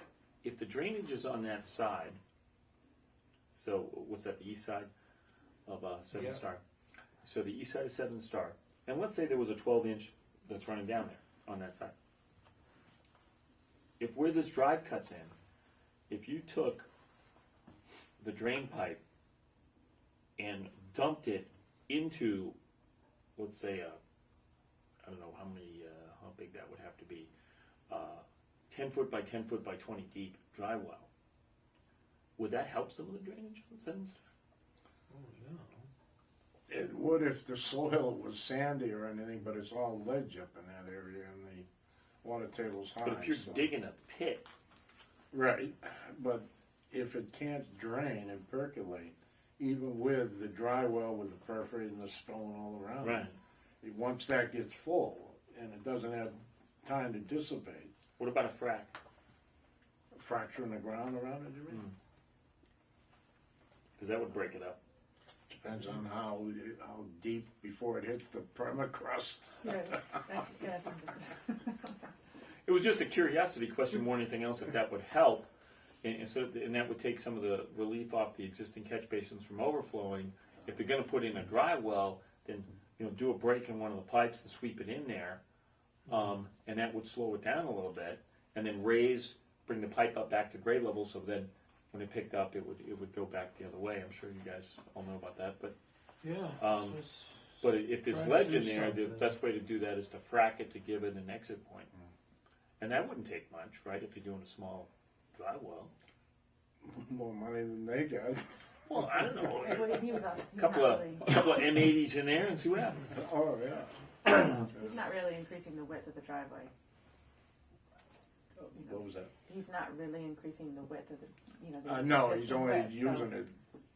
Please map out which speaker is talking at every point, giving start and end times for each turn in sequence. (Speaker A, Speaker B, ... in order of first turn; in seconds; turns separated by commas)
Speaker A: 0.4-2.2, Speaker A: 3.5-4.9, Speaker A: 5.7-6.6, Speaker B: 6.1-6.4, Speaker A: 7.2-11.9, Speaker A: 14.0-15.3, Speaker A: 16.1-16.9, Speaker A: 18.2-19.0, Speaker A: 20.4-22.6, Speaker A: 23.4-24.0, Speaker A: 25.0-27.3, Speaker A: 27.9-31.1, Speaker A: 32.4-34.2, Speaker B: 35.1-35.9, Speaker C: 36.7-41.7, Speaker C: 42.2-43.7, Speaker A: 43.0-44.5, Speaker C: 45.3-53.3, Speaker A: 53.0-53.4, Speaker C: 53.8-57.9, Speaker A: 58.2-59.0, Speaker C: 60.1-61.8, Speaker A: 64.0-64.8, Speaker C: 65.5-70.0, Speaker D: 69.6-72.0, Speaker A: 72.7-75.5, Speaker A: 76.0-85.4, Speaker A: 86.1-95.7, Speaker B: 96.2-99.4, Speaker A: 96.6-101.9, Speaker A: 102.8-105.9, Speaker C: 106.8-108.5, Speaker A: 108.9-113.1, Speaker D: 109.6-111.3, Speaker C: 113.0-114.9, Speaker D: 114.7-116.7, Speaker C: 118.6-119.3, Speaker D: 118.7-123.3, Speaker C: 121.8-123.5